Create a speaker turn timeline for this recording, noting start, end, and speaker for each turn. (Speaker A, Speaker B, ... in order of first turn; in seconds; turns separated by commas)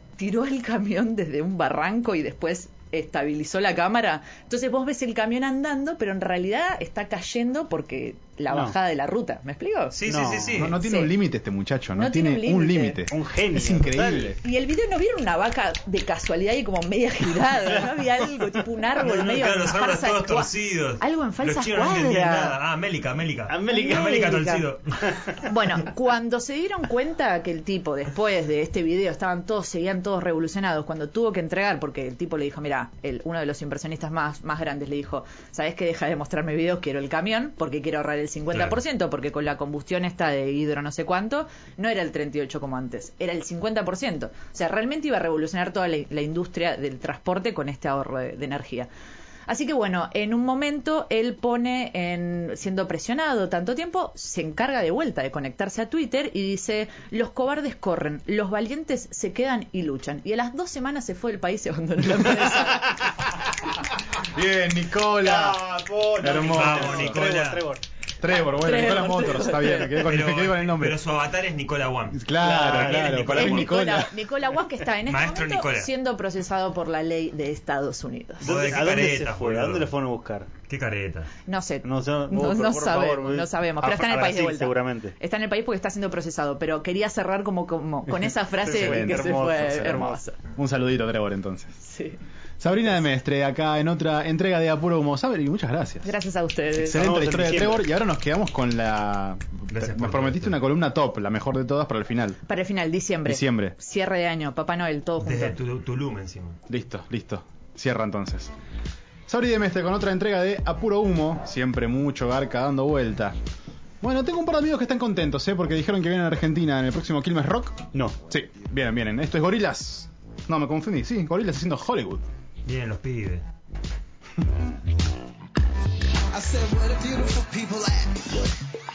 Speaker A: 0.2-9.9, Speaker B: 9.9-10.8, Speaker C: 10.1-10.7, Speaker D: 10.6-14.4, Speaker A: 10.8-11.1, Speaker A: 11.9-13.0, Speaker C: 13.1-14.4, Speaker A: 14.4-22.5, Speaker B: 19.0-25.4, Speaker C: 23.5-25.4, Speaker A: 25.4-48.9, Speaker A: 49.5-63.2, Speaker D: 64.2-65.6, Speaker C: 65.1-67.8, Speaker D: 66.2-67.3, Speaker B: 66.3-67.6, Speaker D: 68.2-71.0, Speaker A: 68.5-70.0, Speaker B: 70.0-73.6, Speaker D: 72.1-74.1, Speaker C: 72.4-73.7, Speaker A: 73.3-78.5, Speaker B: 75.1-75.9, Speaker C: 78.4-80.5, Speaker B: 78.4-79.9, Speaker B: 80.6-81.3, Speaker A: 81.5-90.4, Speaker C: 81.8-85.1, Speaker C: 88.6-90.2, Speaker D: 88.7-89.3, Speaker D: 90.5-91.8, Speaker A: 91.8-92.2, Speaker D: 92.6-96.1, Speaker A: 96.0-97.1, Speaker D: 96.8-102.4, Speaker C: 96.9-97.9, Speaker B: 99.7-100.6, Speaker A: 102.5-105.6, Speaker D: 103.2-103.8, Speaker B: 105.2-106.6, Speaker D: 106.7-108.5, Speaker D: 109.3-113.3, Speaker D: 114.0-122.2, Speaker B: 122.6-123.5, Speaker E: 126.3-128.3